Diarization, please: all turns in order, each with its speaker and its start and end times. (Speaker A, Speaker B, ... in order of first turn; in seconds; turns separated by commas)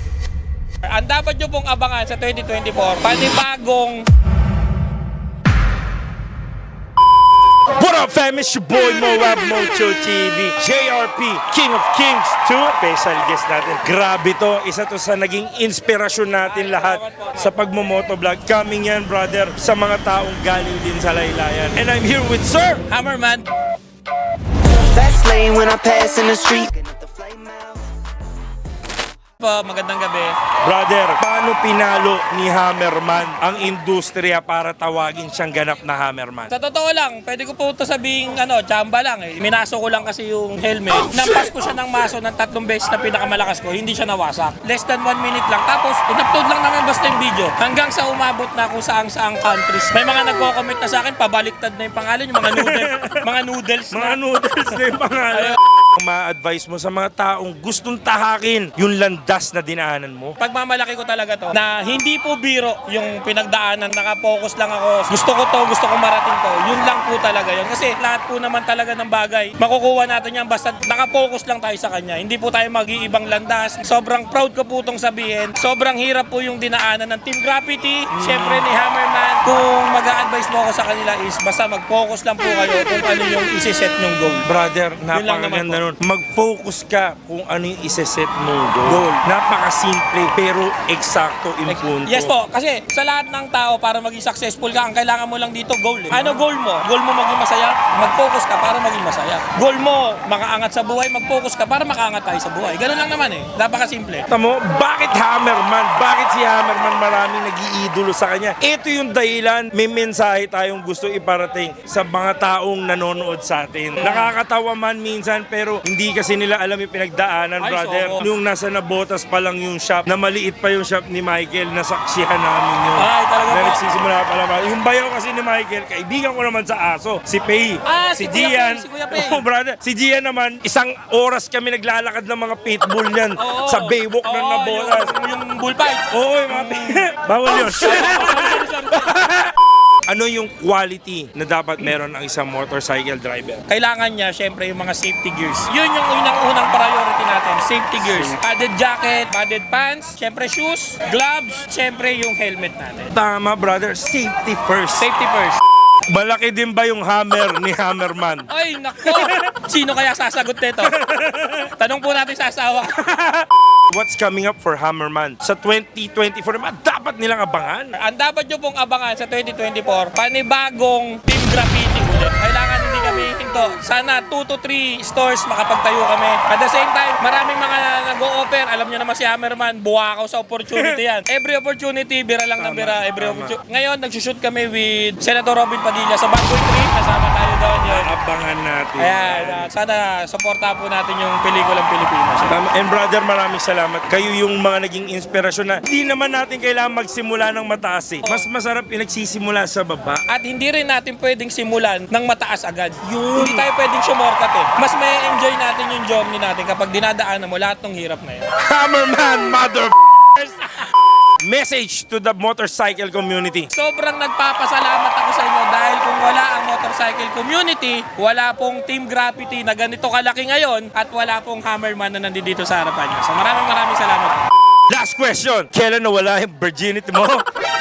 Speaker A: 0.8-4.1, Speaker B: 7.7-22.9, Speaker A: 16.4-17.5, Speaker A: 22.9-23.5, Speaker C: 24.8-27.8, Speaker A: 29.4-30.4, Speaker B: 30.6-36.5, Speaker A: 36.5-54.2, Speaker B: 52.4-53.2, Speaker B: 53.9-60.4, Speaker A: 55.3-55.6, Speaker A: 60.4-84.5, Speaker B: 78.1-78.7, Speaker B: 84.4-92.3, Speaker A: 85.1-85.8, Speaker A: 88.8-89.2, Speaker A: 91.7-104.3, Speaker B: 96.1-96.4, Speaker B: 104.3-135.1, Speaker A: 114.0-114.3, Speaker A: 117.6-118.3, Speaker A: 123.0-123.8, Speaker A: 127.8-129.4, Speaker A: 133.4-139.2, Speaker B: 136.1-139.5, Speaker B: 140.1-143.6, Speaker A: 143.7-153.1, Speaker B: 148.0-148.4, Speaker B: 153.1-155.1, Speaker A: 155.0-155.6, Speaker B: 156.1-158.5, Speaker A: 158.5-160.9, Speaker B: 159.0-159.3, Speaker B: 160.8-161.7, Speaker A: 161.7-163.0, Speaker B: 162.9-167.9, Speaker A: 167.9-188.1, Speaker B: 180.7-181.0, Speaker B: 182.6-183.6, Speaker B: 187.9-189.7, Speaker A: 189.0-192.6, Speaker B: 192.4-200.2, Speaker A: 200.3-208.5, Speaker B: 203.0-203.7, Speaker B: 208.6-209.9, Speaker A: 210.4-210.9, Speaker B: 211.4-213.7, Speaker A: 213.7-224.5, Speaker B: 224.9-227.4